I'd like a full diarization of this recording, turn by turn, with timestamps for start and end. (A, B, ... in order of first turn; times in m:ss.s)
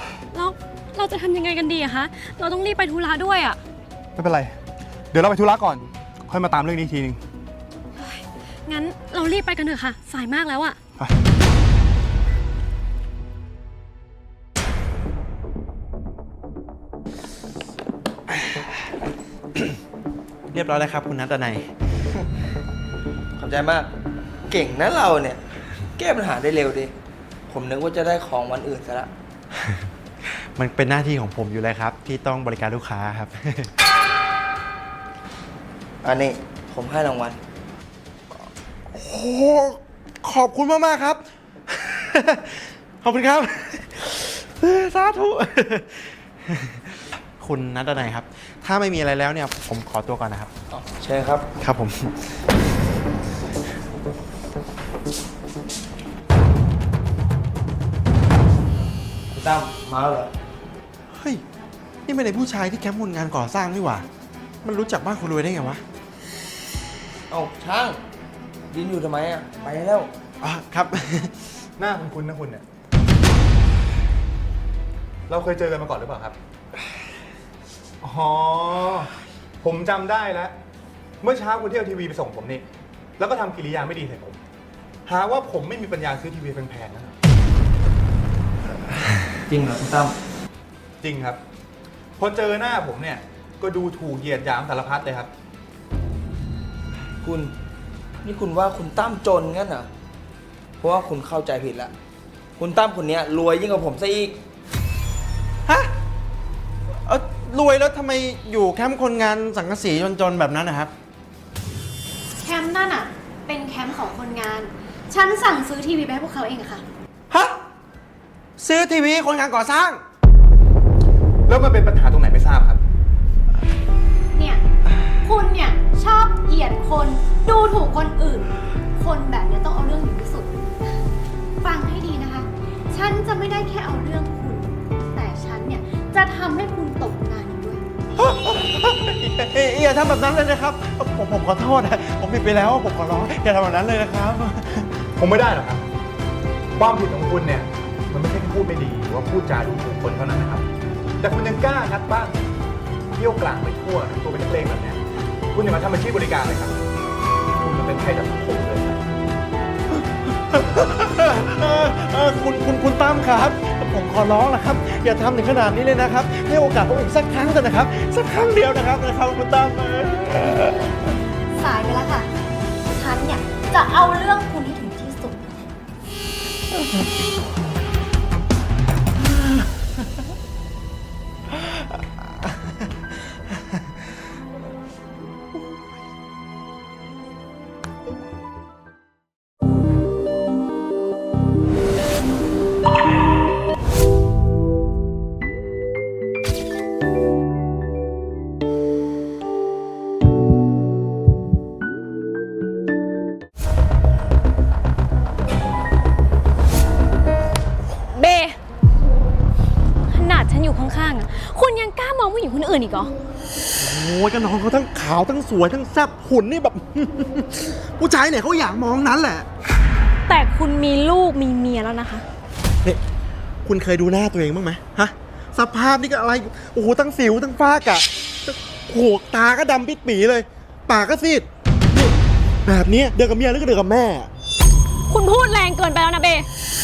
0:00.3-0:03.6 A
0:04.2-0:04.5 B
0:05.1-0:07.2 B
0:08.0-0:10.8 A
0:20.5-0:21.7 C
0:23.4-0:23.9 D
0:24.5-0:25.4 D
0:26.0-0:26.9 D
0:27.5-0:29.1 D
0:30.6-0:33.7 C
0:36.0-0:37.4 D
0:38.9-0:50.5 C
0:50.7-0:51.5 D
0:51.6-0:52.2 C
0:59.3-1:00.3 D
1:01.2-1:01.4 C
1:02.1-1:04.1 C
1:04.6-1:05.8 C
1:07.3-1:08.0 D
1:08.7-1:10.1 D
1:10.4-1:11.3 C
1:11.8-1:12.6 B
1:15.3-1:16.4 B
1:18.0-1:19.1 B
1:19.6-1:20.5 B
1:21.2-1:22.6 B
1:23.2-1:24.4 B
1:25.1-1:27.1 B
1:29.5-1:30.1 D
1:31.0-1:31.4 B
1:32.2-1:35.3 B
1:37.2-1:37.5 D
1:38.2-1:39.9 D
1:40.8-1:41.9 D
1:42.6-1:44.4 D
1:47.1-1:50.9 C
1:52.4-1:56.8 A
1:57.3-1:57.6 C
1:58.6-2:00.0 C
2:01.5-2:02.8 B
2:04.3-2:04.6 A
2:05.2-2:10.7 A
2:11.6-2:17.8 A
2:18.2-2:24.9 C
2:25.2-2:25.8 B
2:26.8-2:30.6 B
2:31.2-2:32.4 B
2:33.2-2:35.0 B
2:35.5-2:36.8 B
2:37.6-2:39.0 B
2:40.3-2:50.9 C
2:51.6-2:52.3 A
2:52.9-2:55.7 A
3:28.1-3:28.6 A
3:30.1-3:33.1 A
3:33.8-3:39.5 C
3:40.3-3:42.2 A
3:43.6-3:54.3 C
3:55.1-3:56.5 A